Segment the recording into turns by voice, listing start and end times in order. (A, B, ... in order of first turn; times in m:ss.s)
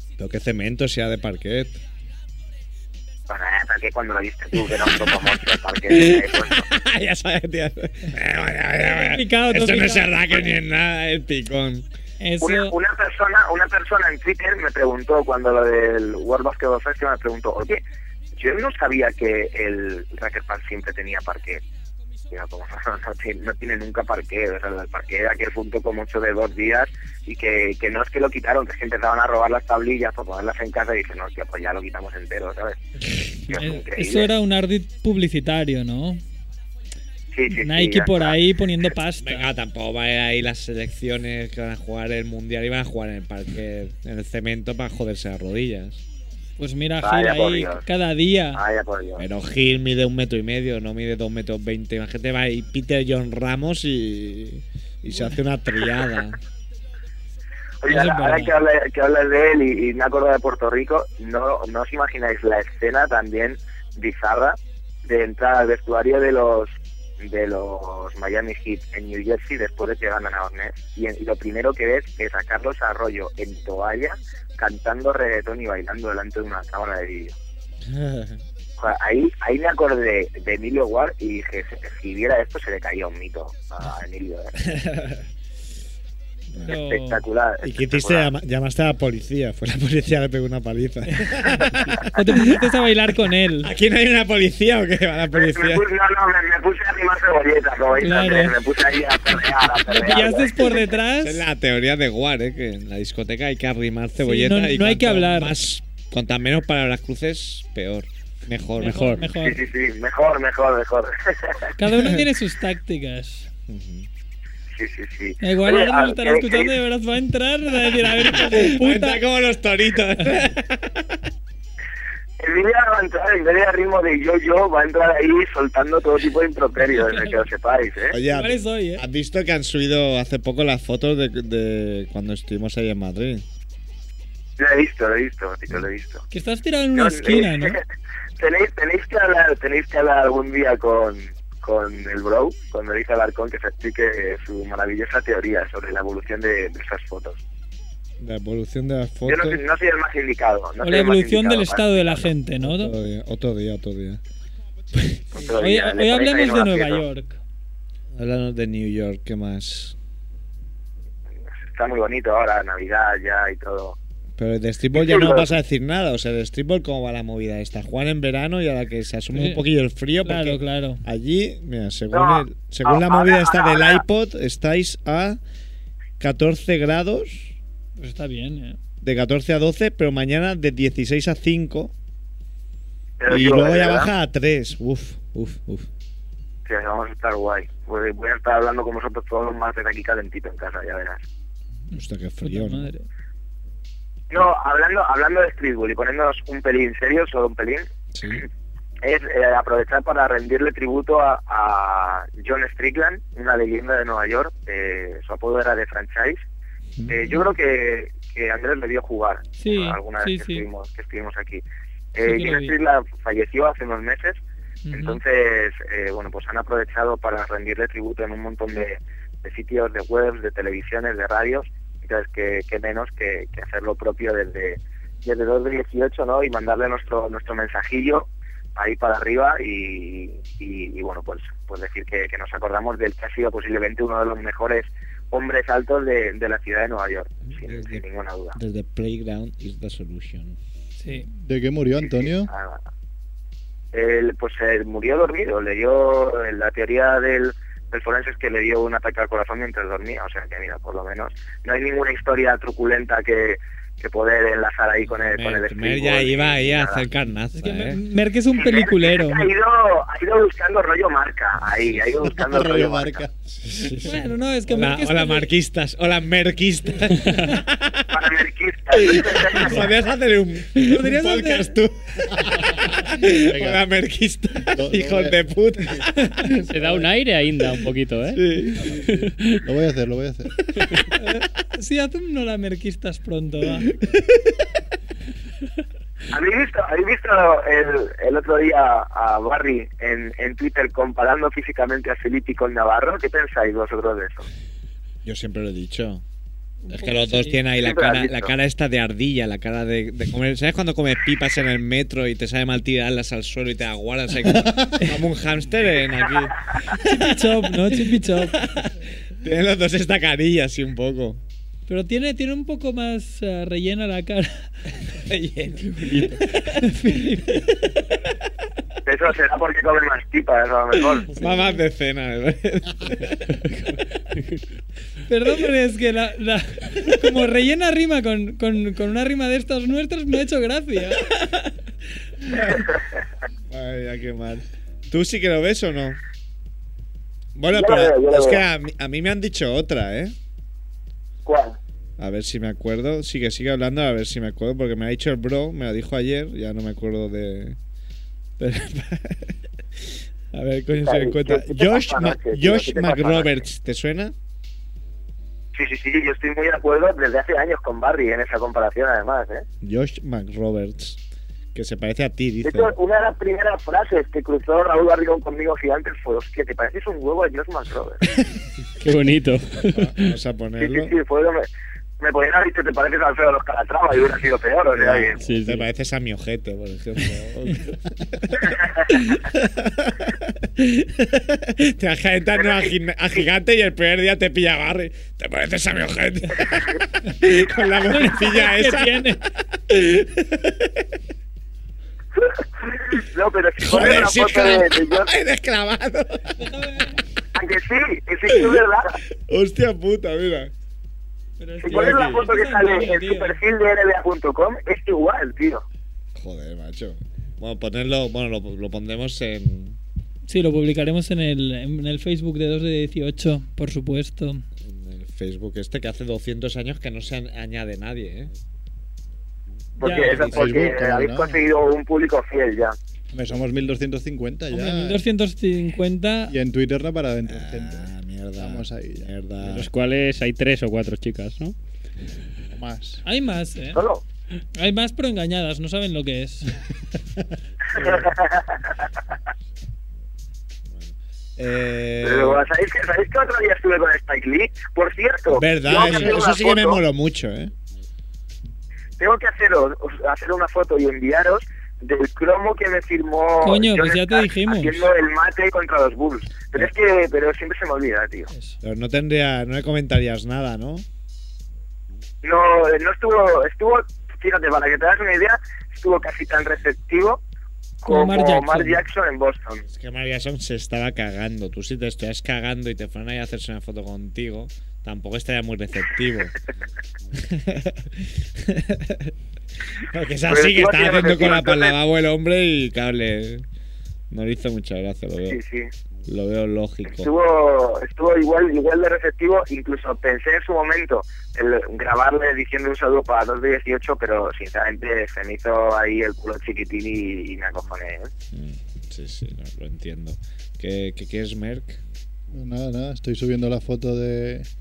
0:00.2-0:01.8 A
0:03.3-0:06.6 B
0:05.9-0:11.8 A
0:08.9-0:10.4 C
0:12.2-0:12.7 C
0:12.4-0:17.8 B
0:18.4-0:21.6 B
0:22.3-0:32.8 B
0:33.4-0:34.3 B
0:33.5-0:36.2 C
0:37.3-0:38.3 B
0:37.5-0:39.5 C
0:39.2-0:46.0 A
0:46.6-0:48.6 C
0:47.0-0:47.8 B
0:48.5-0:49.2 B
0:49.2-0:56.4 A
0:57.8-1:17.3 B
0:57.9-0:58.5 C
1:17.8-1:18.4 A
1:18.8-1:24.5 B
1:24.6-1:25.2 A
1:26.6-1:27.2 C
1:26.6-1:28.3 B
1:27.6-1:32.4 A
1:31.1-1:31.4 C
1:32.0-1:33.7 C
1:33.6-1:35.8 A
1:35.3-1:40.8 B
1:38.0-1:38.5 C
1:39.8-1:41.4 C
1:41.2-1:49.2 A
1:44.2-1:45.5 C
1:48.8-1:49.6 C
1:48.8-1:49.2 D
1:49.4-1:51.6 B
1:51.8-1:53.5 C
1:51.9-1:52.2 A
1:53.7-1:54.1 A
1:54.8-1:56.7 B
1:55.4-1:59.2 C
1:58.2-2:01.2 A
2:02.4-2:08.2 B
2:08.1-2:13.4 A
2:08.3-2:09.0 C
2:14.6-2:16.2 B
2:16.3-2:17.8 C
2:16.9-2:17.8 B
2:18.4-2:27.4 B
2:28.2-2:29.6 A
2:29.2-2:32.3 B
2:30.8-2:32.9 C
2:32.6-2:34.2 A
2:35.3-2:37.0 B
2:35.4-2:37.4 C
2:38.1-2:40.0 A
2:41.7-2:44.0 B
2:44.4-2:55.4 A
2:44.9-2:45.5 B
2:49.3-2:49.6 C
2:50.2-2:51.0 C
2:52.1-2:54.0 B
2:56.2-2:57.5 A
2:58.0-2:58.8 C
2:59.0-3:01.9 A
3:03.2-3:04.1 B
3:03.3-3:05.9 A
3:06.6-3:11.2 B
3:11.9-3:12.9 A
3:12.0-3:13.0 C
3:14.3-3:18.4 B
3:18.1-3:18.4 A
3:19.0-3:26.4 B
3:27.1-3:31.6 B
3:29.6-3:30.6 C
3:32.1-3:34.4 B
3:32.2-3:32.7 C
3:34.8-3:35.2 C
3:34.9-3:58.6 B
3:57.6-3:58.0 A
3:58.5-4:00.6 A
4:01.0-4:01.2 C
4:01.2-4:02.5 E
4:02.0-4:02.8 B
4:03.9-4:17.0 B
4:15.1-4:18.0 A
4:17.6-4:19.5 C
4:18.5-4:23.2 B
4:22.4-4:23.3 E
4:23.5-4:28.2 A
4:24.0-4:25.5 C
4:28.1-4:29.8 B
4:28.9-4:36.6 A
4:30.8-4:31.8 C
4:33.3-4:33.8 E
4:34.7-4:35.3 E
4:36.6-4:38.4 D
4:38.3-4:39.0 A
4:39.0-4:39.5 D
4:39.6-4:40.5 E
4:41.1-4:43.9 C
4:46.3-4:54.5 B
4:55.2-4:56.2 A
4:56.8-4:57.6 C
4:56.9-5:11.4 A
4:57.8-4:58.5 B
5:06.9-5:08.6 C
5:11.9-5:14.7 C
5:15.0-5:18.3 A
5:16.0-5:16.4 D
5:16.6-5:17.7 C
5:19.0-5:21.3 B
5:21.2-5:23.4 A
5:23.7-5:24.6 D
5:25.3-5:31.2 C
5:31.2-5:31.7 A
5:32.4-5:32.8 A
5:33.7-5:36.2 A
5:37.6-5:40.3 A
5:37.7-5:38.6 B
5:41.4-5:41.8 B
5:42.2-5:47.8 A
5:48.6-5:54.3 A
5:50.9-5:53.6 B
5:55.7-5:59.6 B
5:59.8-6:01.2 A
6:01.7-6:02.9 A
6:02.6-6:08.2 B
6:09.0-6:10.3 D
6:09.8-6:11.1 A
6:10.8-6:11.7 B
6:12.2-6:15.4 B
6:14.9-6:31.1 A
6:15.4-6:15.8 D
6:22.6-6:22.8 B
6:28.0-6:29.4 C
6:32.4-6:35.3 B
6:33.8-6:36.6 A
6:36.6-6:37.2 C
6:37.5-6:39.2 B
6:38.5-6:38.8 A
6:39.3-6:40.7 A
6:41.6-6:43.6 C
6:41.8-6:45.8 B
6:41.9-6:42.4 A
6:46.3-6:50.0 A
6:50.5-6:54.6 C
6:54.8-6:58.5 A
7:00.0-7:03.0 B
7:00.0-7:00.5 C
7:00.4-7:01.6 E
7:00.5-7:00.8 A
7:03.3-7:05.2 E
7:04.7-7:06.5 C
7:06.5-7:08.0 E
7:07.5-7:09.9 A
7:08.6-7:09.3 E
7:09.6-7:11.7 D
7:12.8-7:13.2 E
7:13.2-7:14.0 C
7:13.9-7:14.2 B
7:14.7-7:16.7 C
7:17.9-7:18.9 B
7:20.9-7:22.6 A
7:22.2-7:27.0 B
7:25.5-7:27.7 A
7:29.2-7:38.5 B
7:33.6-7:35.1 C
7:38.5-7:38.8 C
7:38.8-7:41.0 A
7:42.4-7:47.4 B
7:48.0-7:49.8 B
7:48.1-7:49.0 C
7:49.9-7:56.5 A
7:57.3-7:59.3 A
8:00.0-8:03.6 A
8:00.5-8:01.9 B
8:04.3-8:05.6 A
8:05.4-8:05.9 B
8:06.2-8:07.3 A
8:07.2-8:18.3 B
8:18.5-8:22.0 A
8:22.5-8:24.7 E